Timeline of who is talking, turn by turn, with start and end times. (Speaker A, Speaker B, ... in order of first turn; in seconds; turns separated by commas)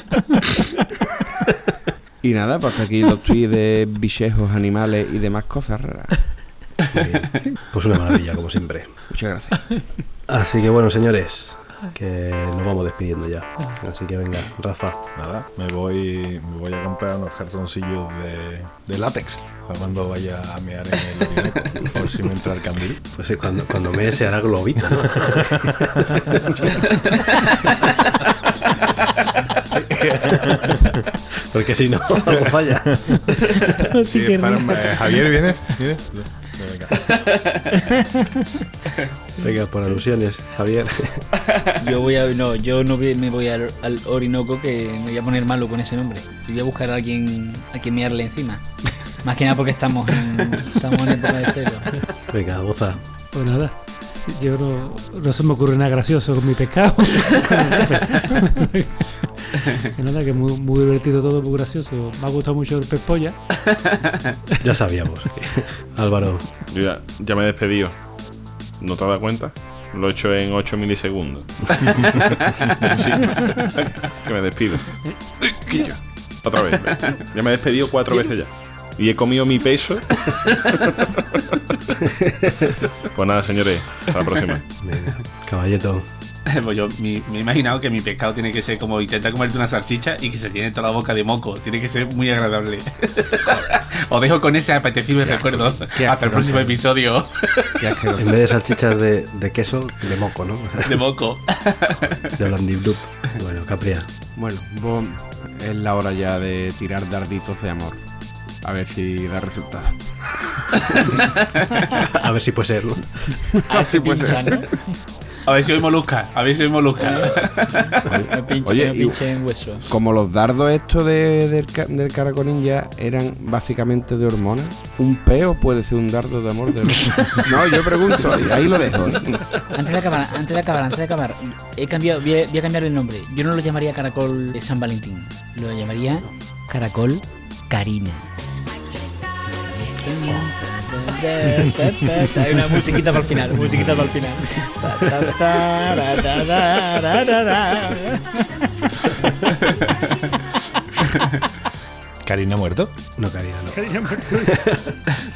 Speaker A: 2.2-6.5, Speaker B: 6.9-9.0, Speaker A: 9.1-9.6, Speaker B: 10.3-15.0, Speaker C: 15.2-23.0, Speaker B: 23.1-26.8, Speaker C: 30.0-31.0, Speaker B: 30.0-30.7, Speaker B: 31.4-33.5, Speaker D: 33.8-35.8, Speaker C: 34.0-37.1, Speaker E: 37.1-37.7, Speaker B: 39.4-41.3, Speaker F: 41.8-51.9, Speaker B: 52.3-53.0, Speaker D: 53.3-63.4, Speaker E: 63.6-64.3, Speaker B: 64.6-66.5, Speaker G: 66.7-68.0, Speaker G: 68.8-81.0, Speaker G: 83.1-84.7, Speaker B: 84.8-86.1, Speaker E: 86.5-97.7, Speaker A: 95.3-96.7, Speaker A: 97.8-98.4, Speaker B: 98.2-101.1, Speaker E: 100.8-102.4, Speaker B: 102.3-104.1, Speaker A: 104.3-108.0, Speaker A: 108.6-111.1, Speaker B: 112.0-113.5, Speaker A: 113.5-114.6, Speaker F: 113.7-115.0, Speaker E: 115.5-118.0, Speaker F: 117.0-119.8, Speaker A: 118.1-119.2, Speaker A: 119.8-129.3, Speaker F: 129.7-138.3, Speaker F: 139.6-148.5, Speaker B: 140.3-140.5, Speaker B: 144.9-145.2, Speaker C: 152.2-152.9, Speaker B: 153.2-154.8, Speaker D: 153.7-154.7